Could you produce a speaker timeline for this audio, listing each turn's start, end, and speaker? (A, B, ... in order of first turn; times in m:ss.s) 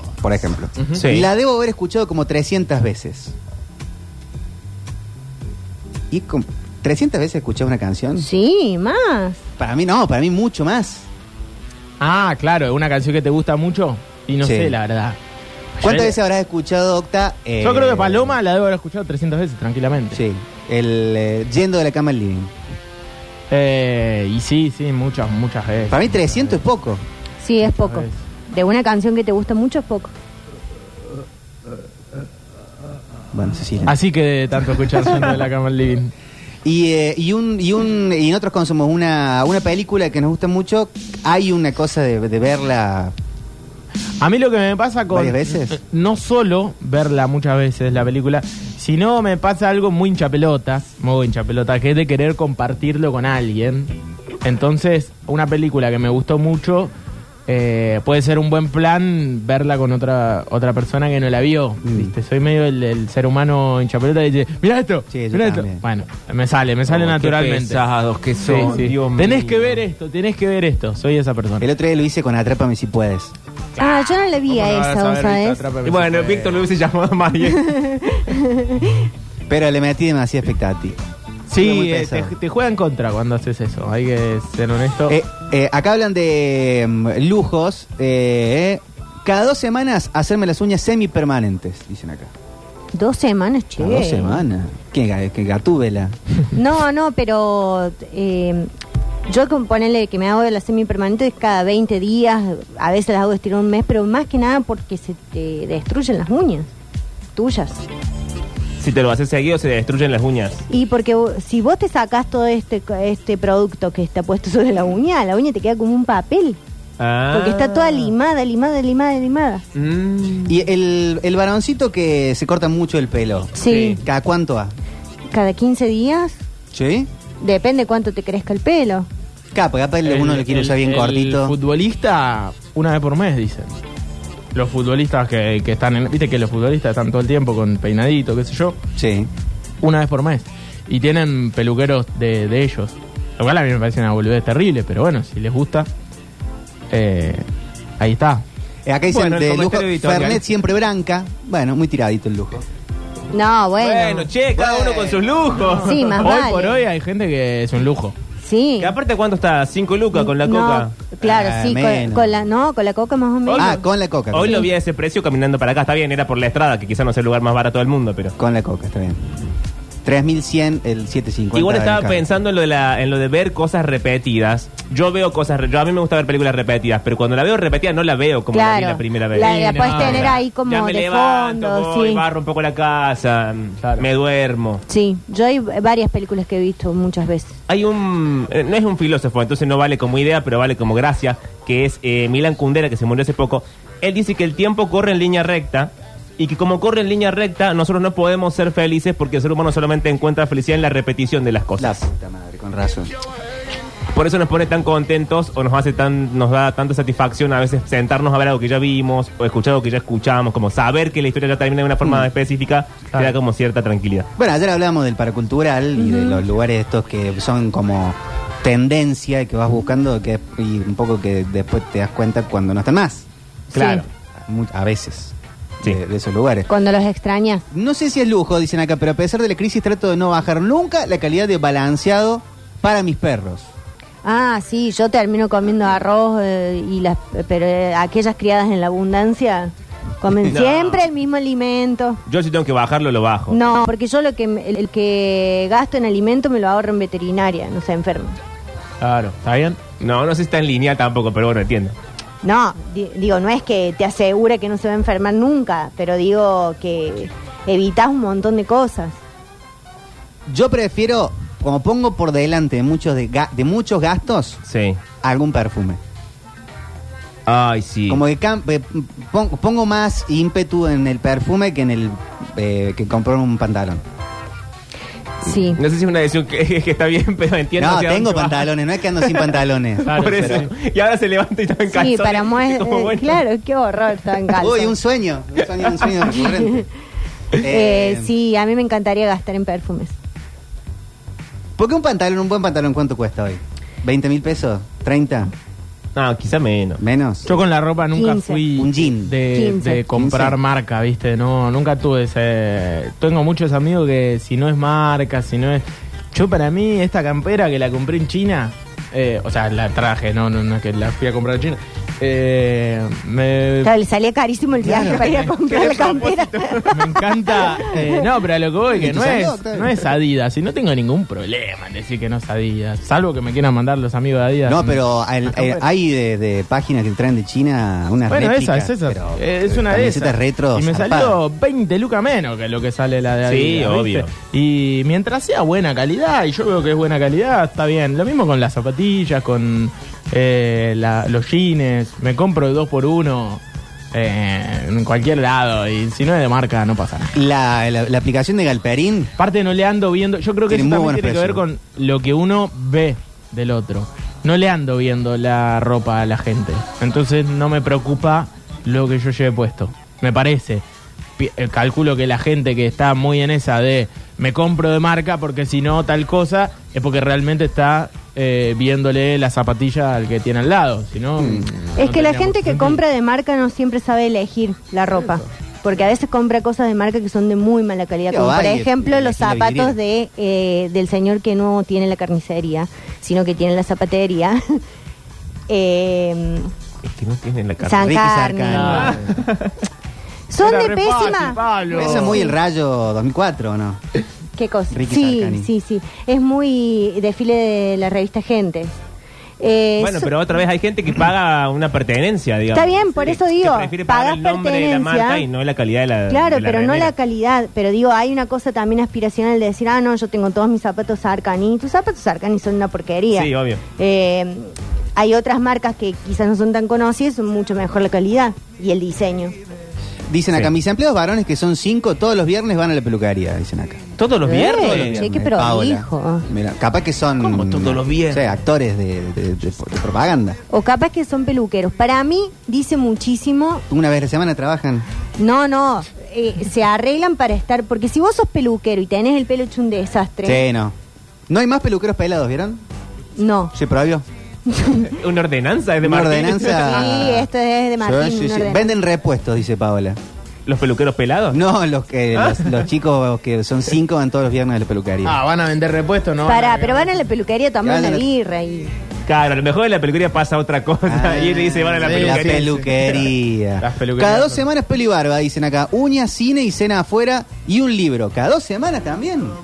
0:00.2-0:03.3 A
0:00.9-0:01.3 B
0:06.1-0:08.3 A
0:08.2-0:09.4 C
0:09.6-0:11.1 A
0:12.0-0:15.2 D
0:14.4-0:14.8 A
0:15.8-0:16.1 D
0:15.8-0:18.4 A
0:17.6-0:20.2 D
0:20.1-0:22.5 A
0:23.5-0:26.5 D
0:25.9-0:27.0 A
0:27.4-0:30.1 C
0:27.7-0:28.1 D
0:33.3-0:34.0 A
0:33.8-0:36.1 D
0:36.6-0:43.1 A
0:44.2-0:56.9 D
0:45.1-0:45.8 A
0:57.5-1:07.8 D
1:01.8-1:02.1 A
1:05.1-1:05.8 A
1:06.9-1:09.8 B
1:08.4-1:11.7 D
1:11.6-1:13.3 A
1:13.8-1:15.6 C
1:13.8-1:16.6 D
1:15.8-1:17.8 B
1:17.5-1:19.1 C
1:19.5-1:21.0 A
1:21.5-1:25.2 D
1:21.5-1:22.3 A
1:25.1-1:32.3 A
1:32.9-1:34.4 C
1:33.8-1:36.2 A
1:36.5-1:38.7 C
1:39.3-1:46.7 C
1:47.3-1:47.8 C
1:48.8-1:50.6 B
1:50.7-1:56.6 C
1:57.0-1:58.1 B
1:57.3-1:59.6 C
1:59.7-2:00.6 B
2:00.4-2:04.7 A
2:03.6-2:04.0 C
2:03.6-2:04.0 B
2:05.3-2:06.4 C
2:06.7-2:07.1 A
2:07.4-2:09.1 C
2:09.5-2:11.6 A
2:10.0-2:13.8 D
2:14.5-2:18.8 D
2:19.0-2:19.3 A
2:19.8-2:25.9 D
2:26.9-2:27.5 D
2:28.0-2:28.4 D
2:28.8-2:32.6 A
2:29.1-2:30.4 B
2:33.3-2:34.3 C
2:33.8-2:36.3 B
2:34.5-2:35.6 A
2:35.6-2:38.1 D
2:35.8-2:36.8 C
2:38.4-2:38.9 C
2:38.8-2:40.9 B
2:40.1-2:43.8 C
2:41.2-2:42.4 A
2:43.4-2:48.3 B
2:43.6-2:44.7 A
2:48.4-2:49.3 A
2:50.0-2:52.2 A
2:51.5-3:04.8 B
2:58.5-3:02.2 C
2:59.4-3:00.3 D
3:04.9-3:07.5 C
3:07.7-3:22.0 B
3:21.8-3:23.1 A
3:24.1-3:34.3 B
3:34.4-3:43.2 A
3:36.0-3:36.4 C
3:43.7-3:44.0 C
3:43.7-3:44.0 B
3:44.4-3:46.7 A
3:46.7-3:47.6 C
3:47.7-3:53.7 A
3:54.2-4:02.2 C
4:00.5-4:01.0 B
4:02.3-4:03.6 B
4:03.5-4:08.4 C
4:09.0-4:09.8 D
4:10.0-4:12.0 B
4:12.4-4:19.2 C
4:20.5-4:24.6 A
4:24.6-4:25.0 B
4:25.2-4:26.0 A
4:27.4-4:28.2 B
4:28.1-4:34.0 A
4:35.4-4:35.8 C
4:35.6-4:43.4 B
4:37.8-4:40.7 A
4:40.0-4:40.7 D
4:41.9-4:44.9 C
4:44.6-4:46.8 A
4:47.6-4:48.3 A
4:47.6-4:50.1 C
4:51.8-4:55.5 A
4:56.1-4:57.0 B
4:57.0-4:57.5 A
4:57.4-5:13.9 D
4:58.1-4:58.6 C
4:58.7-4:59.4 A
4:59.5-5:00.0 C
5:00.1-5:00.6 A
5:13.8-5:18.1 C
5:14.8-5:15.3 A
5:15.4-5:16.8 B
5:16.8-5:25.8 D
5:18.9-5:20.0 A
5:24.6-5:31.4 A
5:28.3-5:43.6 D
5:33.4-5:34.3 B
5:44.1-5:47.3 D
5:47.3-5:49.3 A
5:49.4-6:00.8 D
5:50.7-5:51.6 A
6:01.4-6:13.0 D
6:11.4-6:11.7 A
6:12.0-6:24.8 C
6:18.3-6:20.0 A
6:25.7-6:26.7 C
6:27.0-6:28.2 B
6:27.8-6:29.0 C
6:28.0-6:29.2 A
6:28.7-6:29.4 D
6:29.0-6:29.7 B
6:30.5-6:32.5 C
6:30.6-6:32.4 D
6:31.9-6:34.0 A
6:34.6-6:38.9 C
6:34.9-6:35.7 A
6:39.6-6:40.3 C
6:40.0-6:47.1 B
6:42.7-6:45.4 C
6:46.3-6:59.5 C
6:53.3-6:53.8 B
7:00.3-7:04.0 A
7:04.2-7:05.2 B
7:04.4-7:06.5 C
7:04.6-7:10.6 A
7:07.6-7:08.4 B
7:10.7-7:13.8 C
7:13.9-7:15.0 A
7:15.4-7:20.6 C
7:20.4-7:20.9 A
7:21.5-7:22.8 A
7:23.4-7:23.7 C
7:23.7-7:24.2 A
7:24.7-7:25.1 C
7:25.0-7:27.3 B
7:26.0-7:30.2 A
7:26.8-7:28.9 C
7:30.6-7:31.6 B
7:31.5-7:35.4 A
7:32.3-7:32.8 B
7:35.2-7:37.1 D
7:36.4-7:38.9 C
7:37.8-7:38.3 A
7:39.2-7:43.2 B
7:41.0-7:49.6 A
7:42.0-7:43.0 D
7:43.8-7:44.6 D